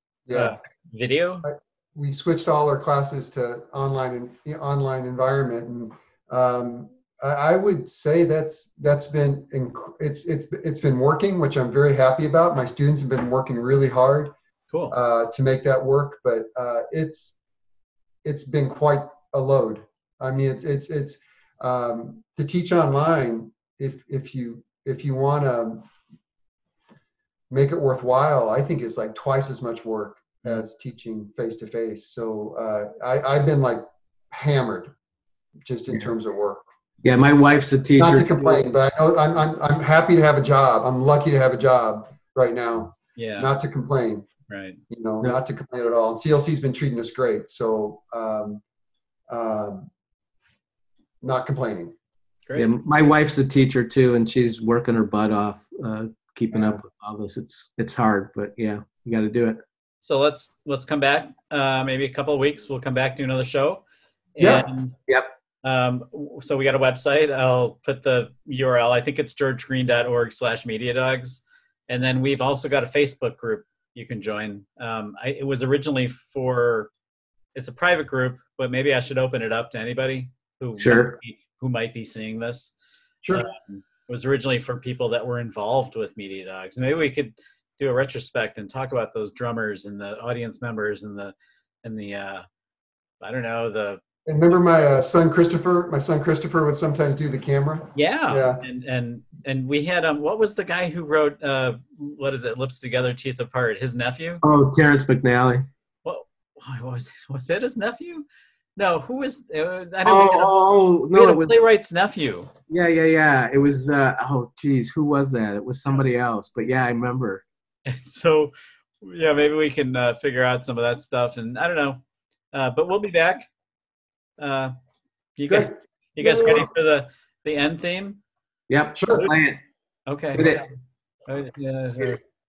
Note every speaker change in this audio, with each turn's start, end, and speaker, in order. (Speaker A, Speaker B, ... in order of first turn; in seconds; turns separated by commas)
Speaker A: 0.3-0.6, Speaker B: 0.3-1.4, Speaker A: 1.4-14.3, Speaker A: 14.9-17.3, Speaker A: 18.2-25.9, Speaker A: 27.5-34.9, Speaker A: 35.6-36.6, Speaker C: 37.0-38.6, Speaker A: 38.0-44.2, Speaker B: 43.2-43.5, Speaker B: 44.5-44.8, Speaker A: 44.9-48.6, Speaker A: 49.3-49.9, Speaker A: 51.2-51.9, Speaker C: 52.5-59.6, Speaker A: 56.5-56.8, Speaker B: 60.0-63.8, Speaker B: 64.3-64.9, Speaker A: 64.4-64.7, Speaker B: 65.6-76.9, Speaker B: 77.5-82.7, Speaker C: 80.8-81.2, Speaker A: 83.2-83.5, Speaker B: 83.3-92.4, Speaker B: 93.2-94.0, Speaker A: 94.2-98.6, Speaker B: 97.9-104.4, Speaker C: 104.4-105.7, Speaker B: 106.0-110.5, Speaker C: 110.0-111.5, Speaker B: 111.1-112.5, Speaker C: 112.7-117.4, Speaker B: 117.8-122.0, Speaker B: 122.5-123.5, Speaker B: 124.4-124.7, Speaker B: 125.4-128.2, Speaker A: 125.5-126.7, Speaker C: 128.7-129.6, Speaker A: 128.9-129.3, Speaker B: 130.1-130.6, Speaker C: 130.3-130.6, Speaker B: 131.3-132.2